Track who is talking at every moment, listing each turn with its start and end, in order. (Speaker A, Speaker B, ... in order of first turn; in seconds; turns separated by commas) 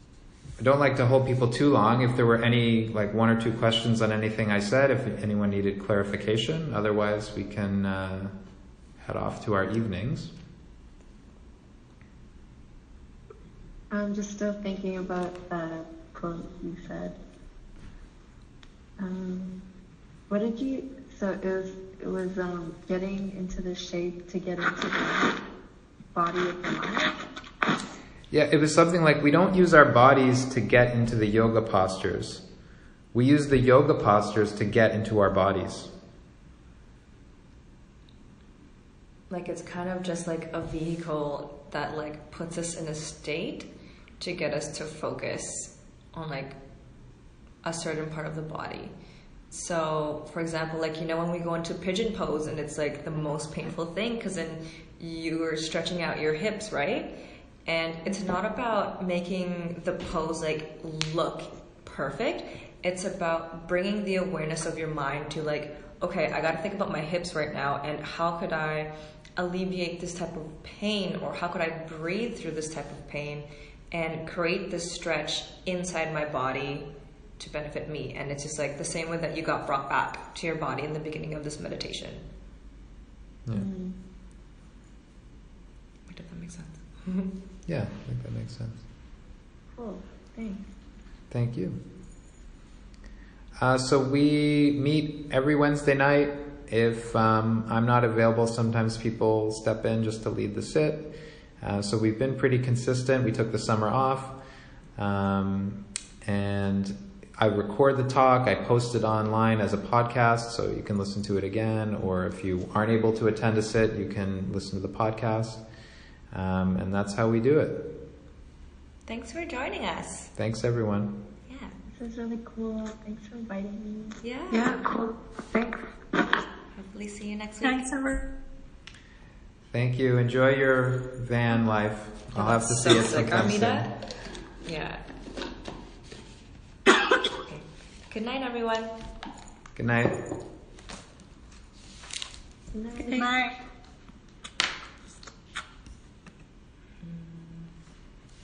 Speaker A: 0.6-8.3, Speaker A: 9.0-10.3, Speaker B: 13.9-17.2, Speaker B: 19.0-19.6, Speaker B: 20.3-25.4, Speaker B: 26.1-27.2, Speaker A: 28.3-32.5, Speaker A: 33.1-35.9, Speaker C: 39.3-46.6, Speaker C: 47.6-48.9, Speaker C: 49.5-82.2, Speaker B: 83.5-84.0, Speaker C: 86.1-87.4, Speaker A: 87.7-88.8, Speaker B: 89.8-90.7, Speaker A: 91.3-91.8, Speaker A: 93.6-104.4, Speaker A: 105.0-115.6, Speaker A: 116.3-118.0, Speaker C: 119.1-120.3, Speaker A: 120.3-121.3, Speaker C: 121.5-121.7, Speaker B: 121.9-124.2, Speaker C: 124.2-124.8, Speaker D: 124.5-125.9, Speaker C: 126.7-127.9, Speaker D: 127.6-128.2, Speaker A: 129.7-133.9, Speaker C: 132.3-134.1, Speaker C: 134.7-135.0, Speaker C: 137.3-139.0, Speaker A: 139.8-140.2, Speaker B: 142.7-143.4, Speaker D: 143.0-143.6, Speaker C: 147.0-147.7